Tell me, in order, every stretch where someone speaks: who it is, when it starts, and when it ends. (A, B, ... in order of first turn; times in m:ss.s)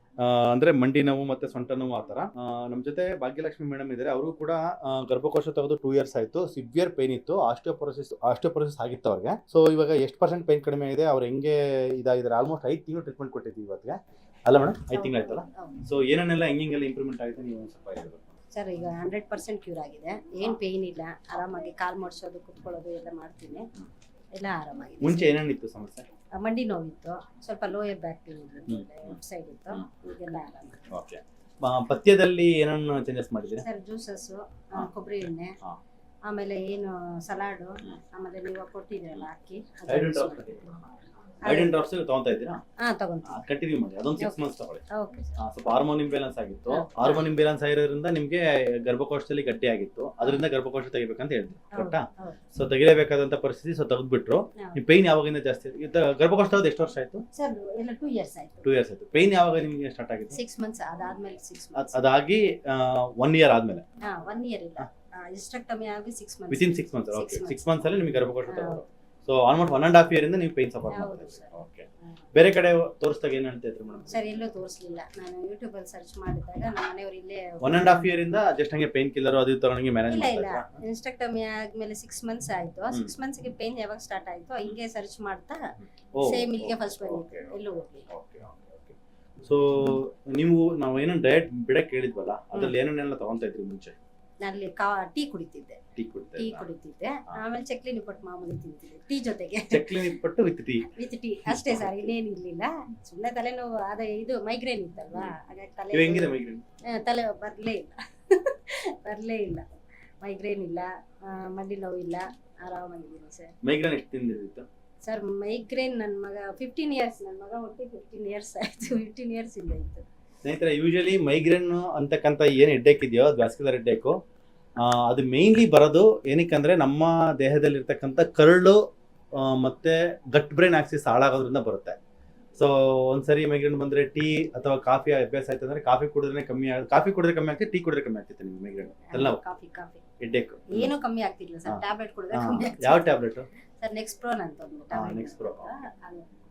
0:00.2-0:18.4 A
0:14.9-0:15.8 B
0:18.5-0:23.7 B
0:24.3-0:25.3 B
0:25.0-0:26.1 A
0:26.3-0:30.8 B
0:28.7-0:29.1 A
0:30.9-0:33.6 A
0:33.6-0:35.5 B
0:36.2-0:40.6 B
0:39.9-0:40.8 A
0:41.4-0:41.8 B
0:41.4-0:42.6 A
0:42.8-0:43.4 B
0:43.2-0:44.8 A
0:44.9-0:45.3 B
0:45.4-0:57.2 A
0:46.7-0:47.3 B
0:51.7-0:52.4 B
0:57.3-0:58.7 B
0:58.6-1:00.4 A
1:00.3-1:02.1 B
1:01.7-1:03.8 A
1:04.0-1:07.9 B
1:06.5-1:14.3 A
1:08.4-1:08.8 B
1:10.9-1:11.5 B
1:14.1-1:18.2 B
1:17.6-1:20.8 A
1:20.1-1:25.6 B
1:26.1-1:27.6 A
1:26.2-1:28.1 B
1:28.1-1:34.0 A
1:34.4-1:35.8 B
1:36.0-1:36.6 A
1:36.3-1:40.1 B
1:39.7-1:40.9 A
1:40.8-1:49.6 B
1:41.4-1:42.1 A
1:45.9-1:46.6 A
1:50.2-1:53.6 B
1:53.6-1:54.6 A
1:55.0-2:00.0 B
2:00.4-2:04.2 A
2:04.8-2:08.8 A
2:09.3-2:12.0 A
2:12.6-2:19.4 A
2:19.1-2:20.0 B
2:20.2-2:20.9 A
2:20.7-2:23.2 B
2:21.6-2:23.5 A
2:23.8-2:26.3 B
2:24.9-2:25.7 A